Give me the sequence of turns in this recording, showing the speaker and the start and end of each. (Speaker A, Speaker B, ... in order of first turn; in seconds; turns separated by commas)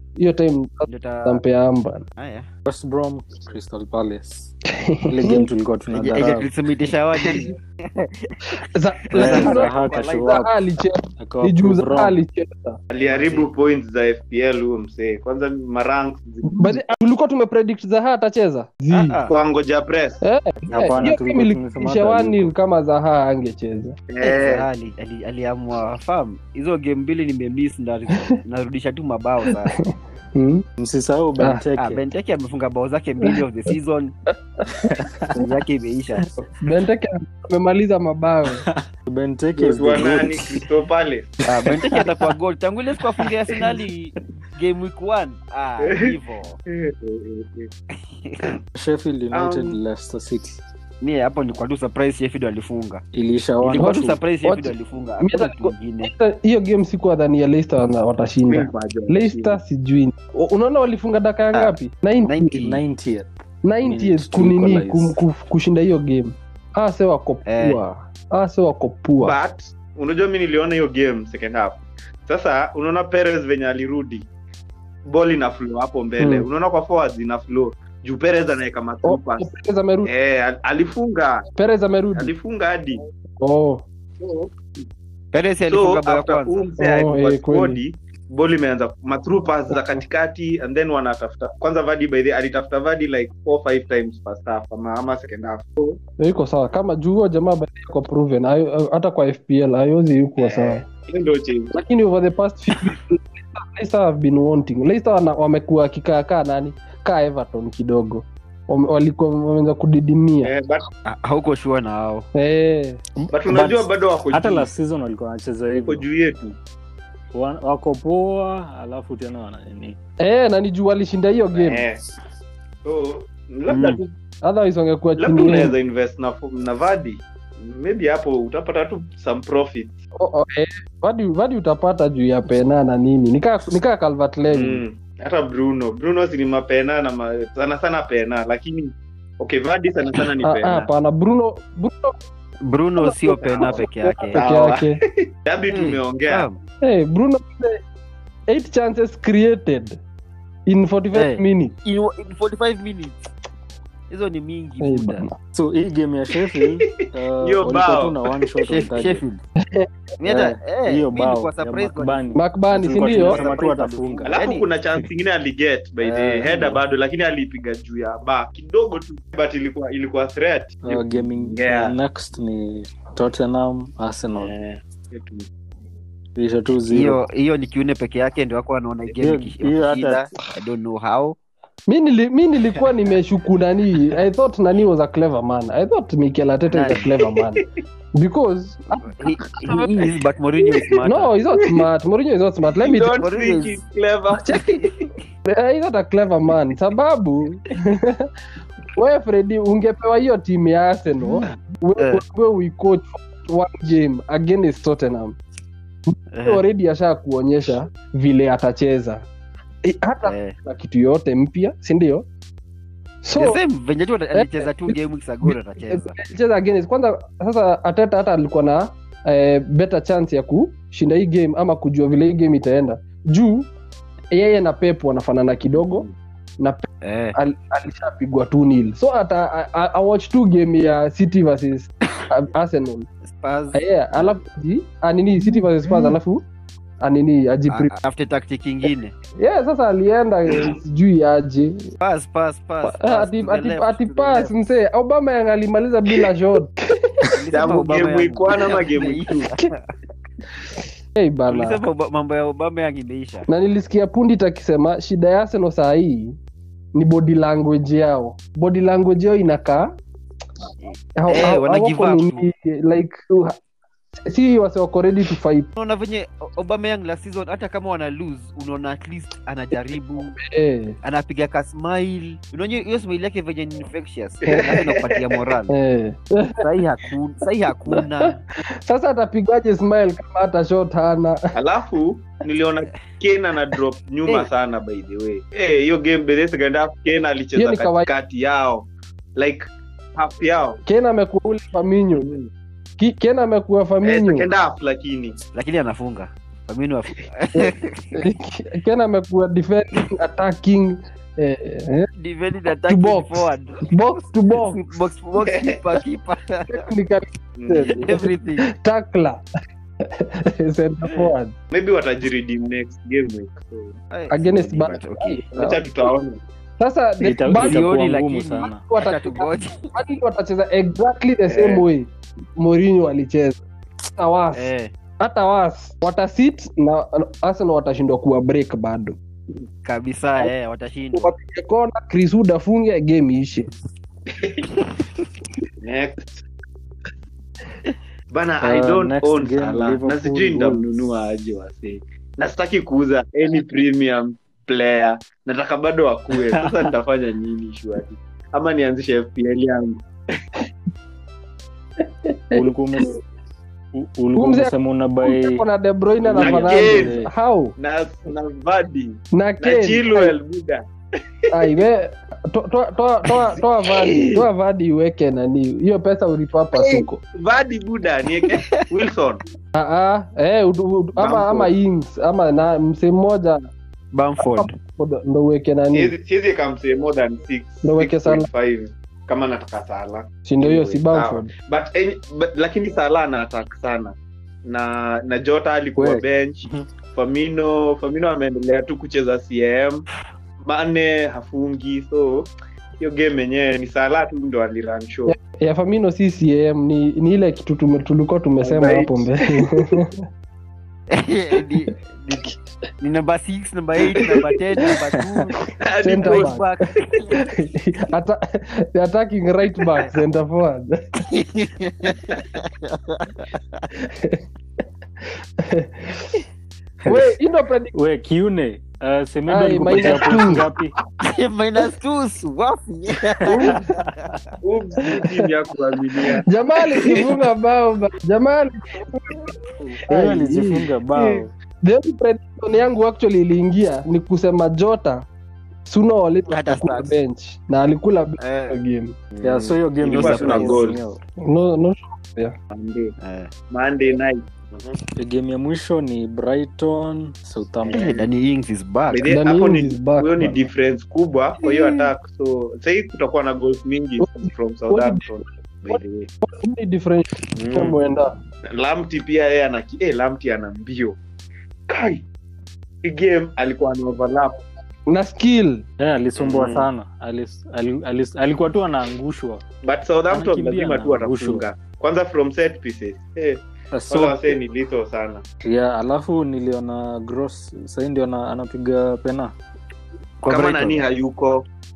Speaker A: 0.2-2.0, Speaker B: 0.8-1.4, Speaker B: 2.2-2.5, Speaker C: 2.7-4.5, Speaker A: 4.9-5.5, Speaker C: 5.1-6.5, Speaker B: 5.9-8.3, Speaker A: 8.7-12.8, Speaker C: 9.2-10.5, Speaker B: 9.2-9.6, Speaker D: 9.2-10.3, Speaker C: 11.2-12.2, Speaker D: 12.9-16.8, Speaker C: 13.0-13.5, Speaker A: 16.5-19.2, Speaker B: 18.9-19.3, Speaker D: 19.3-20.2, Speaker A: 20.2-23.9, Speaker C: 20.7-22.5, Speaker B: 20.8-21.1, Speaker D: 24.1-24.6, Speaker B: 24.2-29.7, Speaker A: 30.3-30.6, Speaker C: 30.8-32.0, Speaker B: 31.8-34.1, Speaker A: 34.6-35.0, Speaker C: 35.0-35.4, Speaker B: 35.3-36.2, Speaker A: 36.6-38.6, Speaker C: 38.7-40.6, Speaker D: 39.5-41.3, Speaker B: 41.5-46.6, Speaker C: 41.5-42.3, Speaker D: 46.7-47.7, Speaker B: 48.2-48.5, Speaker C: 48.8-50.6, Speaker D: 49.3-49.8, Speaker B: 51.0-53.0, Speaker C: 53.1-54.2, Speaker B: 53.6-56.1, Speaker A: 53.8-62.6, Speaker D: 58.5-59.6, Speaker B: 61.5-62.8, Speaker C: 62.6-65.2, Speaker A: 63.6-69.3, Speaker B: 67.5-67.8, Speaker D: 69.2-74.2, Speaker D: 75.1-79.5, Speaker A: 76.2-76.5, Speaker A: 79.0-80.1, Speaker D: 80.0-81.4, Speaker A: 81.5-82.3, Speaker D: 82.1-83.0, Speaker A: 83.4-83.8, Speaker D: 84.2-84.5, Speaker B: 85.3-86.7, Speaker D: 85.7-96.0, Speaker A: 86.8-87.8, Speaker A: 89.7-90.0, Speaker A: 96.2-100.8, Speaker D: 100.4-101.7, Speaker A: 101.7-110.5, Speaker D: 110.4-110.8, Speaker B: 111.1-112.2, Speaker A: 112.3-113.0, Speaker D: 113.3-114.7, Speaker C: 113.4-116.1, Speaker D: 115.8-116.5, Speaker C: 117.3-120.0, Speaker A: 120.2-121.8, Speaker D: 121.5-122.0, Speaker D: 122.8-124.0, Speaker B: 123.7-124.0, Speaker A: 124.4-125.7, Speaker D: 125.2-129.9, Speaker A: 130.2-134.8, Speaker D: 134.5-140.9, Speaker A: 140.4-142.1, Speaker B: 142.7-144.4, Speaker A: 143.0-145.0, Speaker D: 143.4-146.4, Speaker B: 145.7-146.6, Speaker A: 146.8-147.8, Speaker A: 148.5-150.0, Speaker A: 150.7-151.7, Speaker B: 151.1-153.2, Speaker B: 154.1-155.3, Speaker A: 154.8-155.3, Speaker C: 155.5-159.2, Speaker D: 157.4-158.4, Speaker B: 158.6-159.4, Speaker B: 160.2-162.2, Speaker C: 160.2-164.4, Speaker A: 162.3-163.4, Speaker B: 162.9-164.7, Speaker D: 164.2-171.9, Speaker B: 166.0-166.8, Speaker C: 170.8-174.5, Speaker D: 174.3-175.5, Speaker C: 176.3-177.2, Speaker B: 176.9-181.4, Speaker C: 179.2-180.3, Speaker A: 181.9-187.6, Speaker B: 186.7-187.1, Speaker A: 188.1-189.9, Speaker B: 188.9-191.3, Speaker A: 191.0-193.2, Speaker D: 192.8-194.8, Speaker B: 193.2-193.8, Speaker A: 194.3-194.8, Speaker A: 195.4-198.2, Speaker A: 198.9-205.4, Speaker B: 201.4-202.2, Speaker B: 206.3-206.6, Speaker A: 206.4-209.2, Speaker A: 209.8-212.2, Speaker B: 210.2-210.5, Speaker A: 213.2-213.6, Speaker B: 213.3-216.2, Speaker A: 214.3-223.7, Speaker A: 224.3-226.1, Speaker D: 225.7-226.1, Speaker A: 226.6-233.1, Speaker B: 227.0-227.3, Speaker B: 233.2-234.3, Speaker A: 233.7-236.4, Speaker D: 235.9-236.1, Speaker A: 237.0-237.9, Speaker B: 237.7-239.1, Speaker A: 239.4-241.8, Speaker B: 242.0-244.5, Speaker A: 242.8-246.7, Speaker B: 247.3-249.7, Speaker D: 247.5-249.5, Speaker A: 251.1-251.8, Speaker B: 251.5-253.5, Speaker A: 253.5-256.3, Speaker A: 256.9-259.9, Speaker B: 260.8-262.4, Speaker A: 261.2-263.6, Speaker A: 264.1-265.7, Speaker B: 265.8-270.4, Speaker A: 270.4-270.9, Speaker B: 271.0-275.7, Speaker D: 274.4-275.2, Speaker A: 275.7-276.5, Speaker B: 276.6-278.4, Speaker A: 278.9-281.4, Speaker D: 281.5-290.8, Speaker A: 287.6-288.1, Speaker A: 290.9-292.3, Speaker D: 292.1-292.5, Speaker A: 293.0-294.5, Speaker D: 294.0-295.4, Speaker B: 295.5-298.0, Speaker A: 297.5-302.1, Speaker B: 302.2-303.9, Speaker A: 302.9-304.8, Speaker B: 304.5-306.9, Speaker D: 305.5-305.8, Speaker A: 306.7-309.4, Speaker D: 307.6-307.9, Speaker B: 307.7-308.7, Speaker A: 310.2-311.5, Speaker B: 311.0-311.3, Speaker D: 311.7-313.9, Speaker B: 314.1-315.5, Speaker A: 314.3-315.9, Speaker D: 315.5-316.4, Speaker A: 316.8-317.9, Speaker C: 317.2-318.8, Speaker B: 317.5-319.9, Speaker A: 318.6-323.6, Speaker D: 321.5-321.9, Speaker A: 324.2-329.1, Speaker B: 324.6-324.9, Speaker B: 329.8-331.3, Speaker A: 331.1-333.7, Speaker B: 334.8-335.2, Speaker D: 335.8-336.2, Speaker D: 338.3-350.0, Speaker C: 338.6-340.9, Speaker C: 346.3-346.9, Speaker A: 352.3-353.2, Speaker C: 352.5-353.2, Speaker C: 353.9-355.6, Speaker A: 354.3-357.7, Speaker C: 356.2-357.3, Speaker D: 356.3-357.2, Speaker D: 357.8-360.8, Speaker A: 359.3-360.4, Speaker A: 361.5-367.2, Speaker D: 363.3-364.5, Speaker D: 366.7-369.4, Speaker A: 369.7-373.6, Speaker D: 371.2-371.7, Speaker B: 374.1-374.7, Speaker A: 374.5-376.1, Speaker D: 375.9-390.0, Speaker A: 377.8-378.5, Speaker A: 380.4-381.5, Speaker C: 385.9-386.9, Speaker D: 390.6-392.5, Speaker D: 393.0-395.3, Speaker A: 395.3-399.9, Speaker D: 398.6-399.3, Speaker B: 401.1-405.5, Speaker D: 405.8-406.6, Speaker A: 406.0-406.7, Speaker B: 406.2-407.2, Speaker A: 407.4-408.4, Speaker A: 408.9-410.9, Speaker B: 411.3-413.8, Speaker A: 414.0-414.4, Speaker A: 415.6-416.2, Speaker C: 417.0-417.3, Speaker A: 417.1-417.9, Speaker C: 417.9-420.9, Speaker A: 419.5-420.6, Speaker D: 420.0-420.4, Speaker B: 421.2-424.3, Speaker A: 423.5-423.8, Speaker D: 424.6-426.4, Speaker A: 426.4-435.2, Speaker C: 429.8-431.5, Speaker A: 435.9-439.1, Speaker B: 436.5-437.1, Speaker B: 438.4-438.8, Speaker C: 439.4-441.2, Speaker B: 440.0-440.9, Speaker D: 440.1-441.0, Speaker A: 441.5-442.5, Speaker D: 442.7-443.1, Speaker B: 443.2-443.5, Speaker D: 443.7-444.9, Speaker C: 445.1-448.1, Speaker D: 447.9-448.2, Speaker B: 447.9-449.3, Speaker D: 449.1-456.3, Speaker A: 449.3-450.7, Speaker B: 451.6-452.0, Speaker A: 454.2-458.3, Speaker D: 457.6-458.0, Speaker D: 458.7-461.2, Speaker D: 461.9-462.2, Speaker D: 463.0-464.5, Speaker A: 465.1-465.8, Speaker C: 466.0-469.6, Speaker D: 466.4-466.7, Speaker D: 469.8-475.4, Speaker C: 470.3-471.6, Speaker C: 473.9-474.6, Speaker C: 475.6-479.5, Speaker B: 480.4-481.1, Speaker D: 480.5-481.6